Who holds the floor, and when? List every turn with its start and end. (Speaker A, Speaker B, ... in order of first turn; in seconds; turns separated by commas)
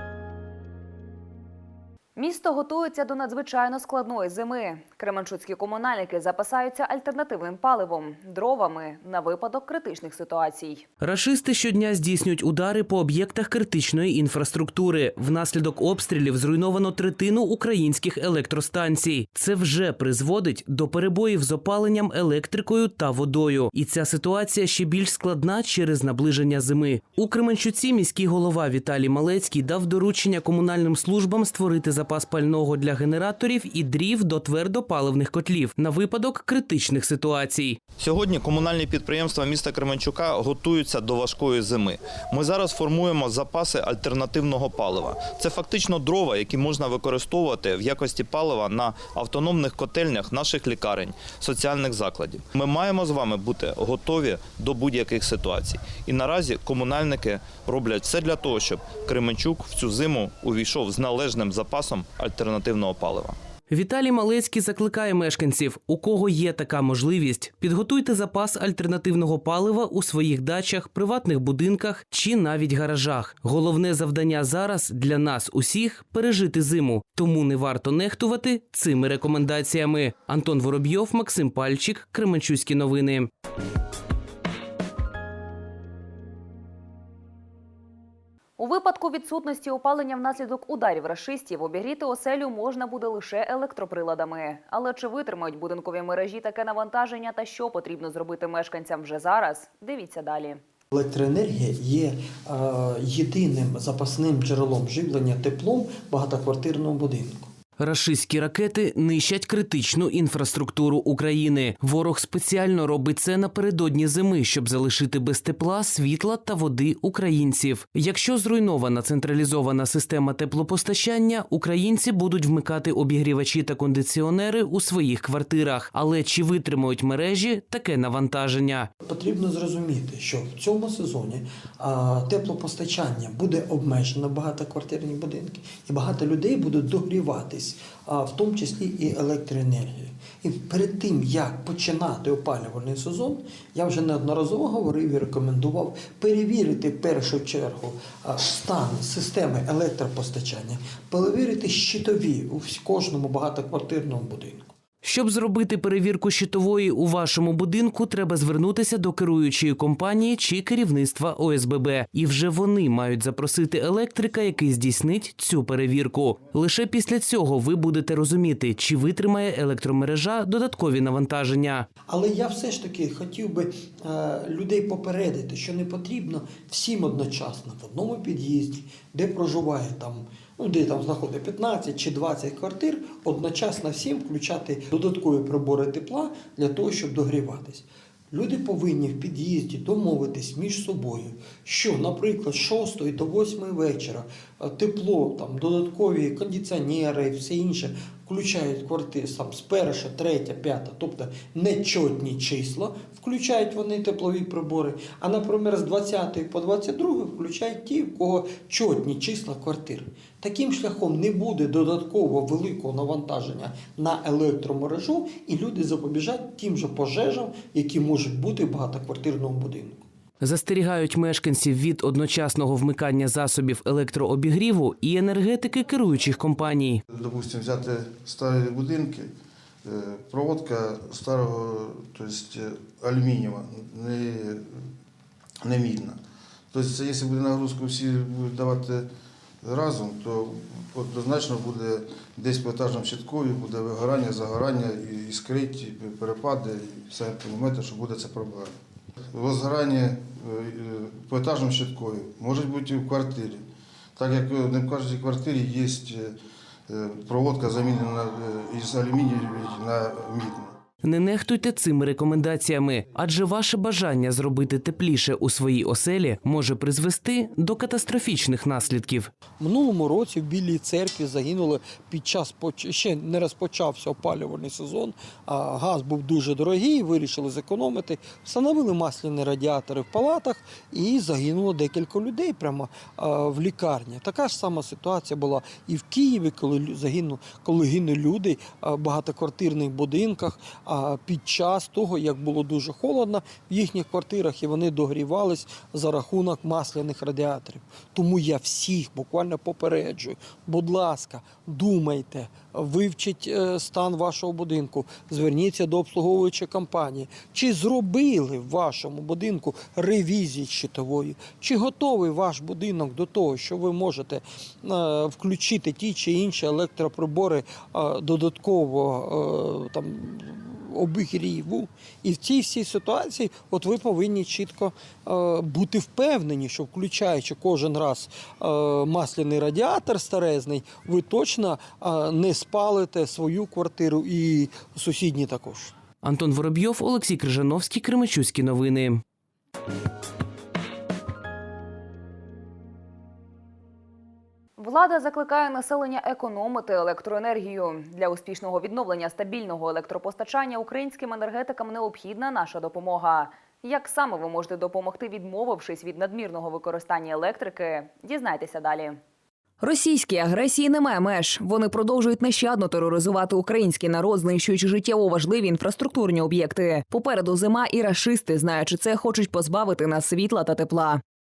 Speaker A: 2.2-10.9, Speaker B: 11.0-37.8, Speaker C: 38.0-63.4, Speaker B: 63.7-83.3, Speaker A: 88.6-100.6, Speaker D: 100.9-107.5, Speaker B: 107.8-128.9, Speaker D: 129.1-154.7, Speaker B: 155.0-171.9, Speaker D: 172.1-220.0, Speaker B: 220.4-227.0, Speaker E: 227.2-229.3, Speaker E: 229.8-234.6, Speaker E: 235.6-236.2, Speaker E: 236.7-239.1, Speaker E: 239.6-248.7, Speaker E: 249.3-253.6, Speaker E: 254.2-256.4, Speaker E: 256.9-260.7, Speaker B: 261.0-269.3, Speaker D: 269.6-335.9, Speaker B: 336.2-339.2, Speaker A: 344.8-359.2, Speaker A: 359.8-371.2